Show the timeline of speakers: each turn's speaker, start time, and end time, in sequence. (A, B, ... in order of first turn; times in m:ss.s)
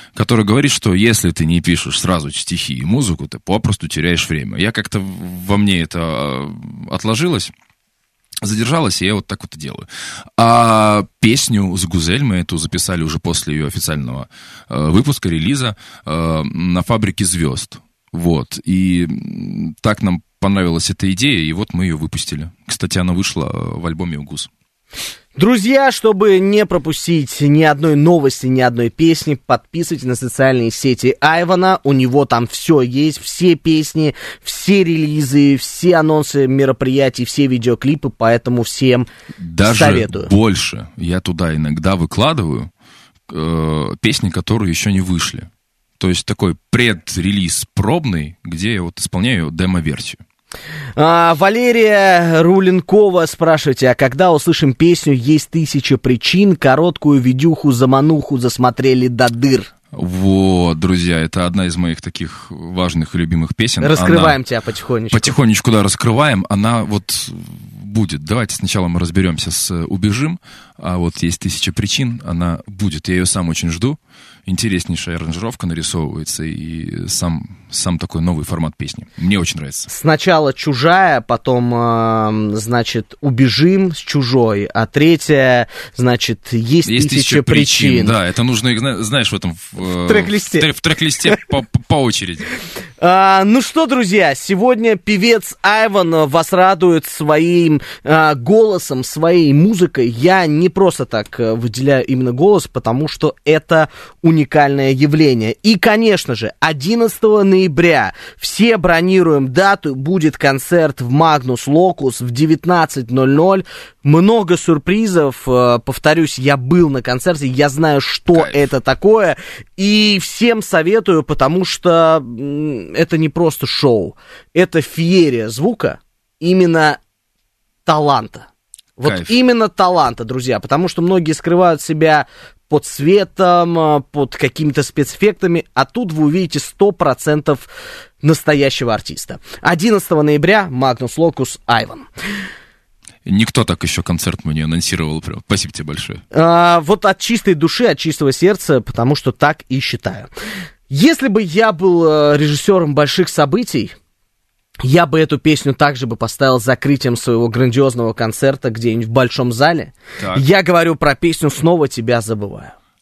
0:00.2-0:07.5 A
0:08.4-0:09.8 A
0:10.4-0:24.5 A
0:25.4-0:39.1 B
0:39.4-0:42.7 A
0:39.6-0:40.3 B
0:43.3-0:45.5 A
0:46.0-0:50.2 A
0:51.0-0:59.7 B
1:00.0-1:04.3 A
1:03.8-1:05.3 B
1:05.1-1:19.8 A
1:19.9-1:28.2 B
1:26.8-1:32.5 A
1:30.0-1:30.7 B
1:33.0-2:07.0 B
2:07.8-2:17.7 B
2:09.0-2:09.3 A
2:18.2-2:22.1 B
2:23.2-2:26.2 A
2:26.3-2:30.3 B
2:30.9-2:33.9 B
2:34.8-2:42.7 B